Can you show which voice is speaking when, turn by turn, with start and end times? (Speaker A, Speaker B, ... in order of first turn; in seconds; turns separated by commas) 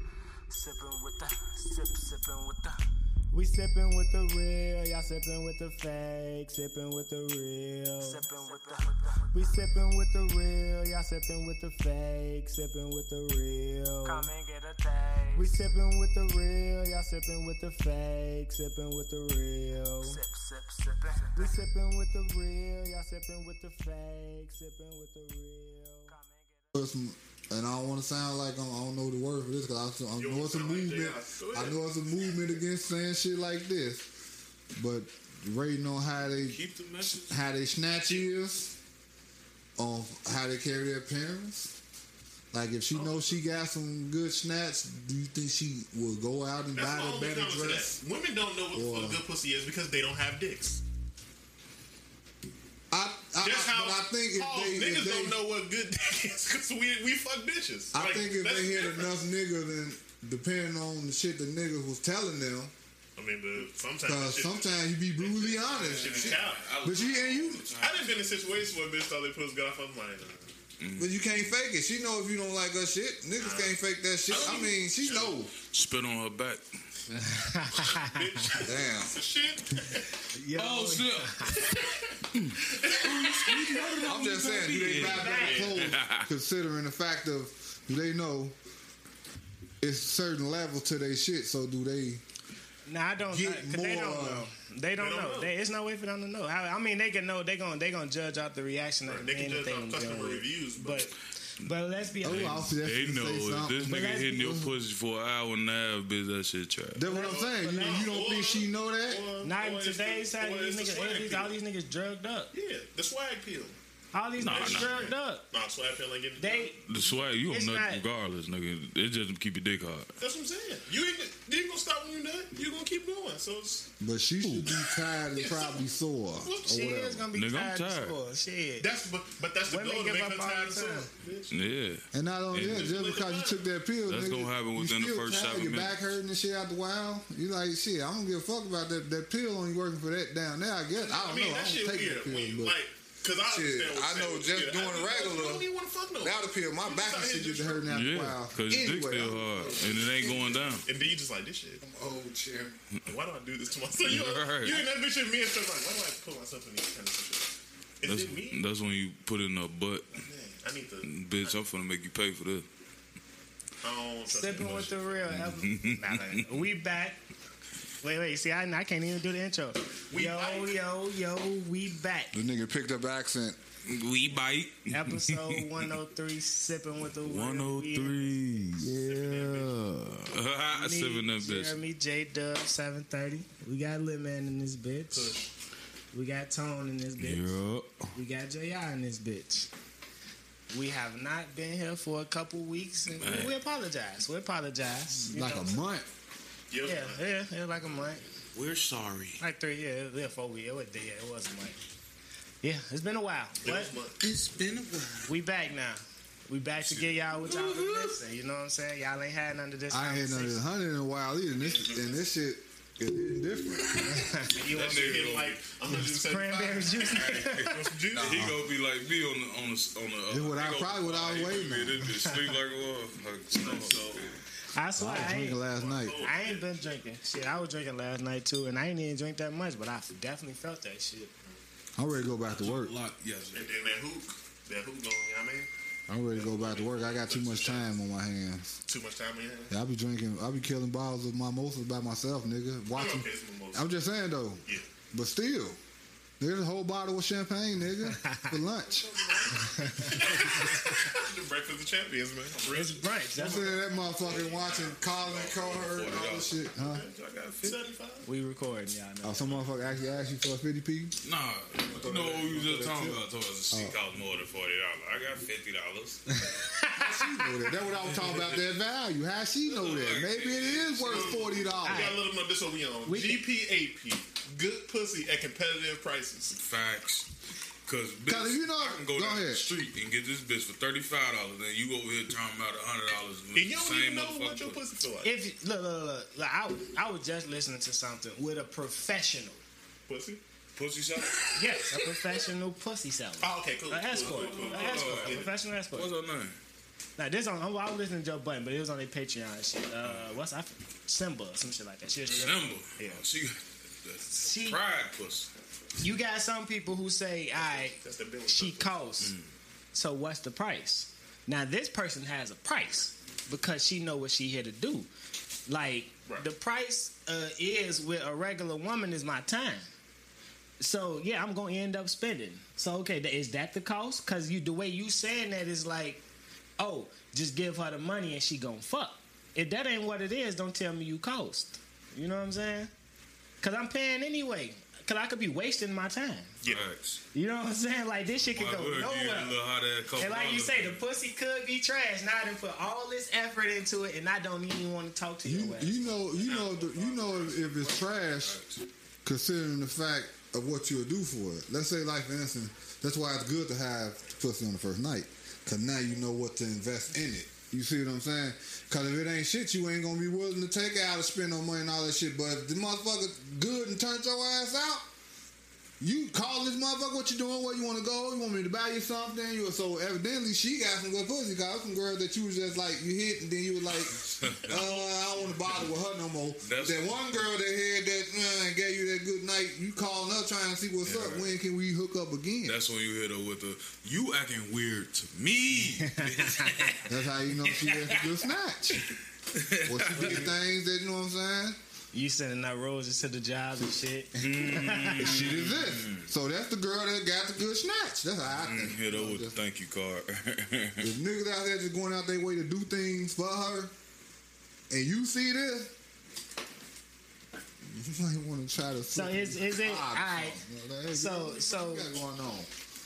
Speaker A: 0.5-1.4, Speaker B: 0.5-2.7, Speaker A: 2.2-2.7, Speaker B: 3.3-14.3, Speaker A: 8.0-9.3, Speaker A: 14.0-15.6, Speaker B: 15.3-20.2, Speaker A: 20.0-21.6, Speaker B: 21.2-26.1, Speaker C: 26.7-34.1, Speaker D: 30.2-32.5, Speaker C: 34.8-38.7, Speaker E: 36.2-37.4, Speaker C: 39.8-41.7, Speaker C: 42.5-47.9, Speaker D: 42.9-43.4, Speaker D: 46.7-50.8, Speaker C: 48.7-49.2, Speaker C: 52.9-55.4, Speaker D: 53.4-59.1, Speaker C: 57.9-62.7, Speaker D: 63.1-66.7, Speaker C: 64.0-67.7, Speaker E: 65.7-68.4, Speaker D: 67.8-70.5, Speaker E: 70.8-71.2, Speaker C: 71.0-75.5, Speaker D: 73.4-73.7, Speaker D: 74.3-75.4, Speaker E: 75.7-76.6, Speaker B: 77.1-78.6, Speaker D: 77.7-80.0, Speaker C: 78.6-79.2, Speaker B: 80.3-81.7, Speaker E: 80.5-81.6, Speaker D: 81.5-84.0, Speaker E: 82.3-86.3, Speaker C: 84.0-88.5, Speaker D: 85.0-86.0, Speaker B: 85.0-85.7, Speaker C: 89.8-92.2, Speaker B: 92.8-102.7, Speaker C: 93.3-94.5, Speaker D: 95.0-95.5, Speaker D: 99.0-101.1, Speaker E: 102.2-107.1, Speaker C: 102.2-104.7, Speaker B: 103.9-104.5, Speaker C: 106.9-109.2, Speaker B: 107.1-108.2, Speaker D: 107.1-111.5, Speaker B: 109.4-112.5, Speaker D: 112.5-113.8, Speaker B: 114.1-115.5, Speaker E: 114.4-115.1, Speaker D: 114.4-116.8, Speaker B: 116.4-118.0, Speaker E: 116.8-120.1, Speaker D: 120.2-123.9, Speaker C: 124.0-127.2, Speaker E: 124.4-124.8, Speaker D: 124.8-125.8, Speaker D: 126.4-126.9, Speaker B: 126.7-128.9, Speaker E: 127.3-128.2, Speaker D: 128.8-131.5, Speaker B: 129.7-131.1, Speaker E: 131.5-132.9, Speaker C: 132.1-142.8, Speaker D: 132.7-133.6, Speaker E: 134.1-135.9, Speaker D: 140.9-147.9, Speaker C: 143.4-145.7, Speaker C: 146.2-150.8, Speaker E: 147.9-150.8, Speaker D: 149.9-150.2, Speaker D: 150.8-151.8, Speaker C: 151.8-152.8, Speaker D: 153.0-158.6, Speaker E: 154.0-154.8, Speaker E: 158.0-160.2, Speaker D: 160.1-161.6, Speaker E: 161.0-162.7, Speaker D: 163.8-165.4, Speaker B: 164.2-167.2, Speaker E: 165.3-166.5, Speaker B: 168.0-172.3, Speaker D: 170.1-170.8, Speaker C: 172.3-173.6, Speaker E: 173.8-175.7, Speaker B: 174.9-178.7, Speaker E: 177.2-181.8, Speaker C: 178.8-179.5, Speaker D: 178.8-179.7, Speaker B: 180.7-185.3, Speaker D: 185.1-185.5, Speaker B: 186.1-187.6, Speaker E: 187.2-188.1, Speaker B: 188.1-189.7, Speaker B: 190.7-195.8, Speaker E: 193.2-193.5, Speaker C: 195.2-196.1, Speaker D: 196.7-197.2, Speaker B: 196.8-198.2, Speaker E: 198.5-199.4, Speaker B: 199.4-201.8, Speaker B: 202.6-203.9, Speaker D: 203.6-204.2, Speaker E: 204.2-205.3, Speaker B: 205.3-210.6, Speaker E: 206.8-208.2, Speaker C: 209.9-214.2, Speaker D: 211.5-212.2, Speaker B: 214.1-215.2, Speaker E: 214.6-215.6, Speaker D: 214.7-218.4, Speaker B: 215.9-217.9, Speaker E: 217.0-224.2, Speaker C: 218.1-218.6, Speaker C: 220.3-222.1, Speaker B: 222.2-222.5, Speaker D: 223.5-224.3, Speaker B: 224.7-225.6, Speaker C: 225.0-226.3, Speaker D: 225.7-226.9, Speaker B: 226.2-231.3, Speaker C: 231.9-232.9, Speaker E: 232.4-233.6, Speaker D: 233.5-235.7, Speaker C: 236.1-238.8, Speaker D: 236.3-237.9, Speaker D: 238.8-239.7, Speaker C: 239.7-245.8, Speaker D: 242.9-244.0, Speaker C: 246.4-249.5, Speaker B: 248.0-248.6, Speaker D: 249.0-255.8, Speaker B: 249.5-250.7, Speaker B: 252.7-253.8, Speaker C: 253.3-257.0, Speaker E: 255.3-257.8, Speaker D: 256.8-258.3, Speaker B: 258.2-259.8, Speaker C: 259.2-261.1, Speaker E: 261.2-266.4, Speaker C: 261.8-263.9, Speaker B: 266.5-267.5, Speaker C: 266.9-272.1, Speaker E: 268.1-268.6, Speaker E: 269.6-271.5, Speaker D: 271.0-276.6, Speaker B: 271.8-272.2, Speaker B: 273.0-273.4, Speaker E: 276.6-277.3, Speaker E: 277.8-284.8, Speaker C: 278.3-279.6, Speaker D: 283.5-285.3, Speaker B: 285.2-289.6, Speaker D: 290.1-290.4, Speaker E: 290.8-292.4, Speaker B: 291.5-296.1, Speaker D: 293.4-295.5, Speaker E: 294.2-296.5, Speaker B: 297.2-303.2, Speaker E: 302.3-305.5, Speaker B: 304.3-304.8, Speaker B: 306.0-308.0, Speaker D: 307.5-309.0, Speaker B: 308.5-309.3, Speaker B: 309.9-315.1, Speaker B: 315.7-319.9, Speaker B: 320.8-326.2, Speaker B: 326.8-332.9, Speaker B: 333.6-336.5, Speaker E: 336.6-337.2, Speaker B: 337.3-339.6, Speaker E: 338.5-341.0, Speaker B: 340.1-346.0, Speaker C: 345.4-348.6, Speaker D: 346.2-348.0, Speaker C: 349.2-365.1, Speaker C: 366.0-382.8, Speaker E: 374.4-374.8, Speaker E: 376.6-377.4, Speaker E: 381.0-381.5, Speaker E: 382.6-387.1, Speaker B: 386.0-387.0, Speaker C: 387.1-389.1, Speaker E: 387.7-388.3, Speaker E: 389.5-390.5, Speaker C: 389.8-391.8, Speaker B: 390.2-390.5, Speaker B: 392.1-395.5, Speaker E: 394.4-396.3, Speaker C: 395.2-399.5, Speaker E: 398.5-401.1, Speaker C: 401.0-403.9, Speaker C: 404.9-405.9, Speaker C: 407.9-412.7, Speaker B: 409.1-410.6, Speaker B: 411.1-412.1